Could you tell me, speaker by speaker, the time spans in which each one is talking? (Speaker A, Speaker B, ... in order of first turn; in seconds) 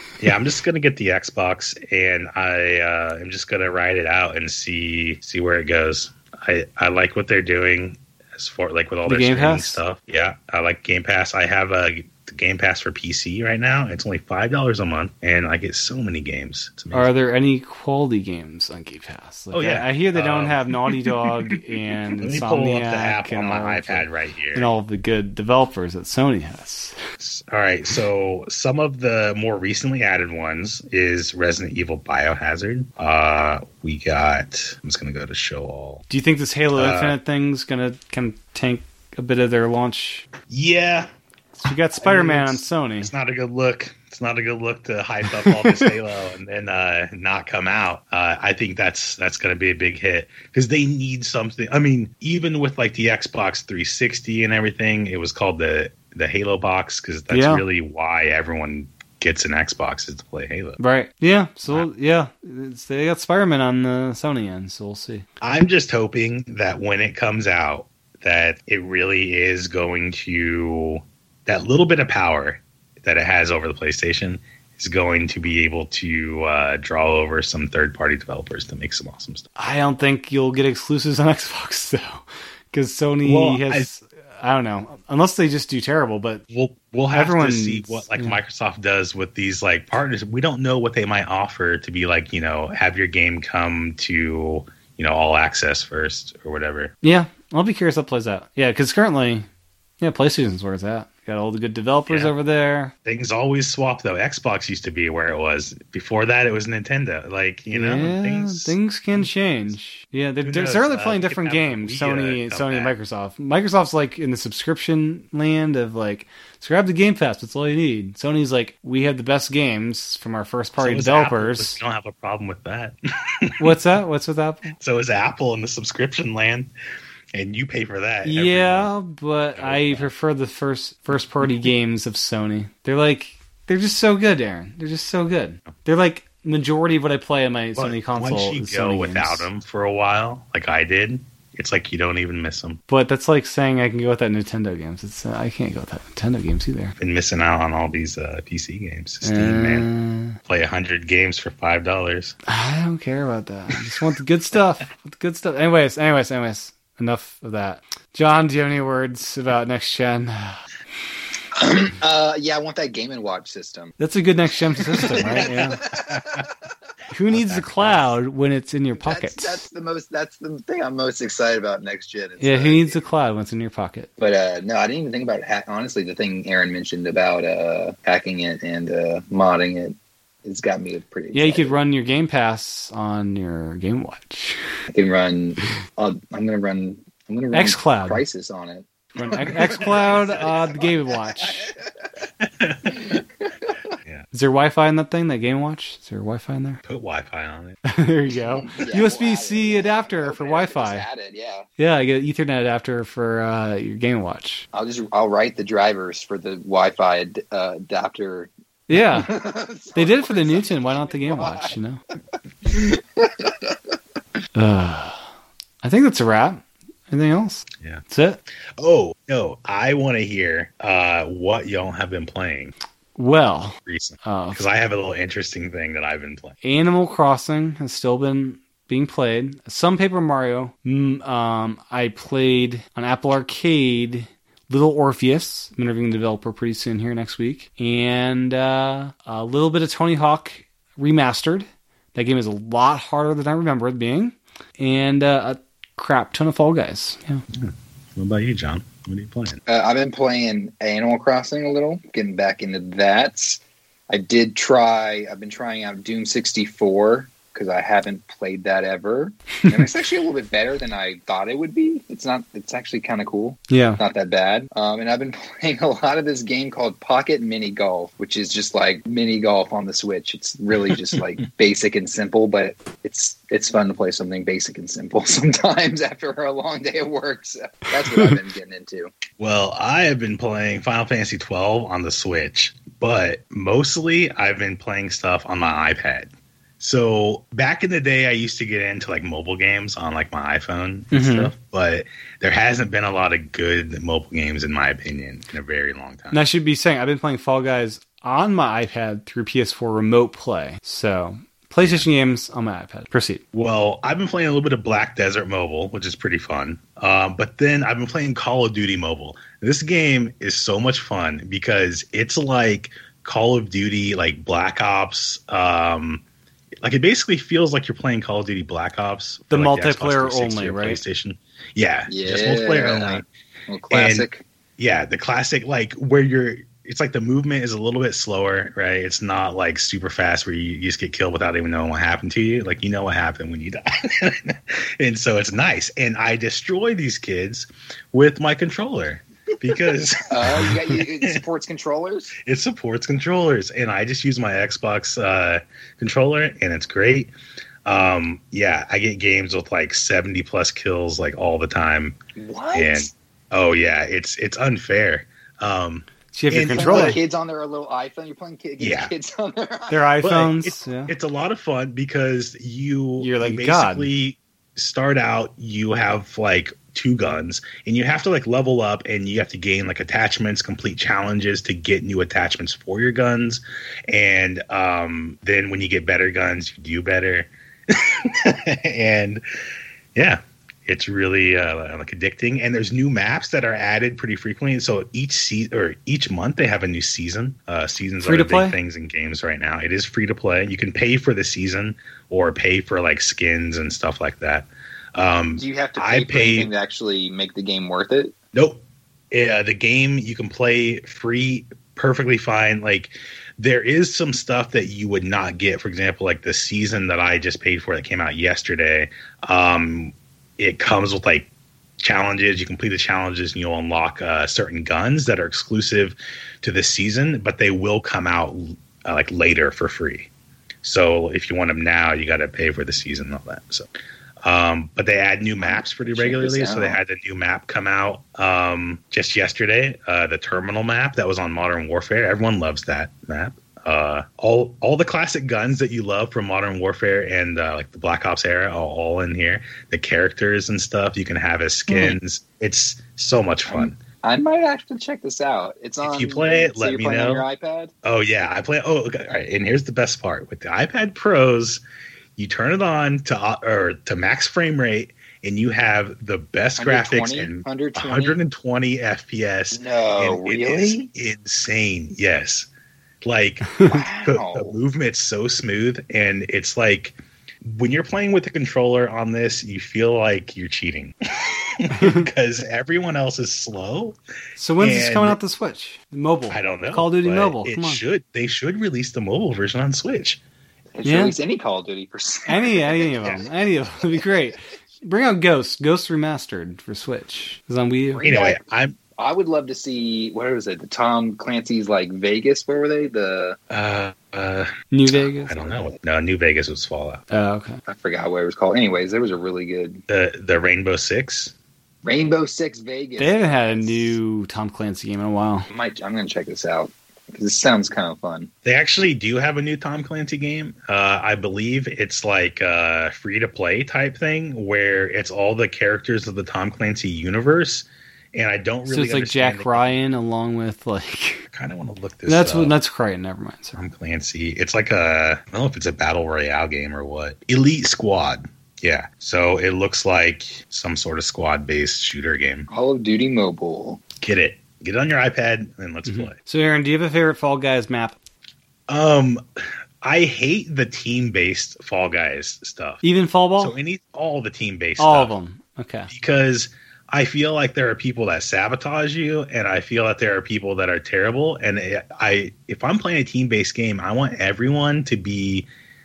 Speaker A: 0.2-17.1, 19.5-21.6, 22.2-24.7, 27.2-36.0, 36.8-37.2, 40.5-41.1, 42.0-60.8, 65.4-79.5, 83.2-83.9, 86.5-96.9, 103.0-109.3, 110.4-112.9, 120.8-123.8, 124.8-126.7, 127.3-128.9, 129.6-130.1, 137.8-142.8, 147.0-149.9, 150.4-152.4, 165.2-166.5, 167.3-168.1, 192.4-193.2, 196.8-197.8, 218.8-222.7, 223.9-226.6, 247.5-249.6, 279.4-296.4, 303.5-316.2, 316.8-323.2, 323.9-324.3, 324.8-341.4, 342.4-347.3, 347.9-352.1, 352.7-357.2, 358.8-359.1, 360.2-379.4, 380.1-396.7, 398.5-411.5, 412.0-420.3, 420.8-423.9, 424.4-444.0, 446.0-447.4, 448.0-451.8, 452.4-462.7, 463.2-474.2, 474.8-475.4, 476.5-480.4, 488.2-489.0, 493.7-494.7, 495.4-497.2, 500.1-501.5, 508.6-520.0, 521.5-522.8, 523.8-532.7, 534.2-536.4, 538.9-539.4, 540.0-543.0, 543.6-545.3, 546.1-555.7
Speaker B: 9.1-9.8, 16.9-26.9, 36.1-40.3, 41.6-43.1, 45.3-45.9, 57.3-57.6, 60.8-65.3, 79.6-86.4, 87.1-88.4, 97.0-99.5, 100.0-102.9, 107.7-121.8, 123.6-124.7, 128.2-139.5, 142.9-146.9, 149.2-150.4, 152.5-160.6, 164.0-165.8, 167.1-169.6, 172.4-174.1, 181.3-184.6, 187.5-188.2, 189.2-191.7, 194.3-196.8, 197.8-201.1, 201.8-204.7, 208.9-209.3, 209.9-212.0, 214.6-215.3, 215.8-218.4, 223.2-224.6, 226.6-247.4, 263.7-264.0, 291.1-291.5, 296.3-303.4, 319.5-321.0, 356.3-357.2, 359.9-361.1, 363.2-364.1, 388.2-388.8, 471.9-472.3, 474.6-478.0, 481.0-481.4, 482.5-488.2, 494.9-495.7, 497.3-497.8, 503.2-505.7, 518.9-521.5, 522.3-523.8, 536.1-538.2, 543.0-543.8, 545.0-546.1
Speaker C: 161.6-164.0, 164.9-166.5, 169.0-173.0, 174.2-181.8, 184.9-191.9, 193.0-193.7, 198.6-201.7, 204.7-211.7, 212.7-213.8, 249.7-279.1, 322.1-324.4, 340.3-342.4, 352.4-353.1, 356.7-360.1, 395.6-398.4, 425.6-427.0, 441.9-442.2, 443.7-447.9, 456.8-458.4, 459.7-461.1, 463.9-464.8, 480.9-483.2, 484.0-484.3, 488.1-488.6, 489.2-493.6, 495.6-495.9, 497.9-500.0, 502.0-504.2, 505.7-508.5, 532.7-534.0